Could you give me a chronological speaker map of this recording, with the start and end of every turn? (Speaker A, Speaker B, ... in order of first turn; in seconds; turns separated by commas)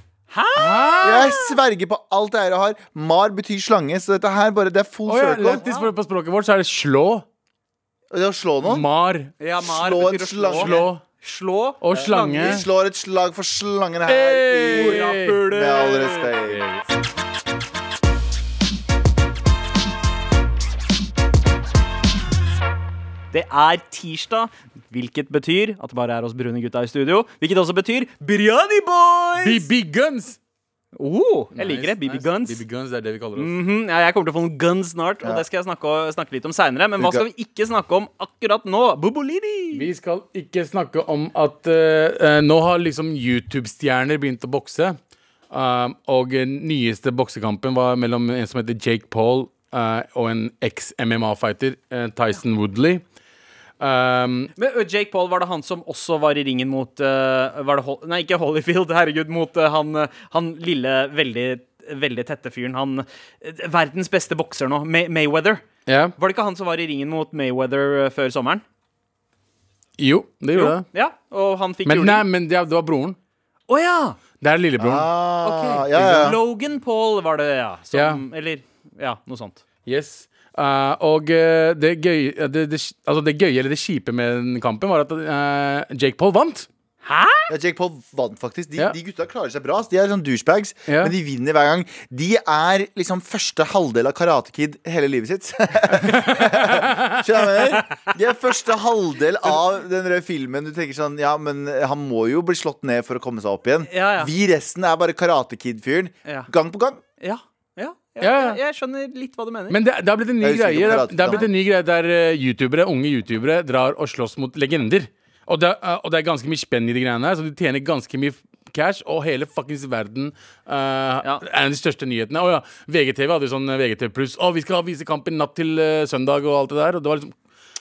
Speaker A: 0.3-1.4, Speaker B: 0.6-1.4, Speaker C: 1.0-5.6, Speaker B: 5.1-7.2, Speaker A: 5.5-5.9, Speaker C: 8.1-8.8, Speaker B: 8.6-9.3, Speaker A: 9.4-12.6, Speaker C: 9.6-10.9, Speaker B: 10.5-11.0, Speaker B: 11.8-12.6, Speaker C: 12.4-16.6, Speaker B: 14.1-15.4, Speaker A: 14.6-16.3, Speaker B: 16.4-16.9, Speaker A: 23.3-29.7, Speaker B: 29.4-30.4, Speaker A: 30.9-32.6, Speaker B: 31.6-33.5, Speaker A: 33.3-39.9, Speaker C: 37.0-37.2, Speaker B: 39.7-45.0, Speaker B: 45.5-53.0, Speaker B: 53.8-54.5, Speaker A: 54.5-65.6, Speaker B: 65.9-66.1, Speaker A: 66.2-68.6, Speaker B: 70.0-70.8, Speaker A: 70.5-72.2, Speaker B: 71.8-73.2, Speaker A: 73.7-74.2, Speaker B: 74.4-75.1, Speaker C: 74.8-76.4, Speaker A: 75.4-79.6, Speaker B: 77.9-78.2, Speaker B: 79.8-86.7, Speaker A: 87.0-87.5, Speaker C: 87.5-107.0, Speaker B: 90.9-91.1, Speaker B: 96.0-97.2, Speaker A: 103.9-104.3, Speaker A: 107.2-109.8, Speaker B: 108.2-108.6, Speaker B: 109.7-127.3, Speaker C: 110.4-111.5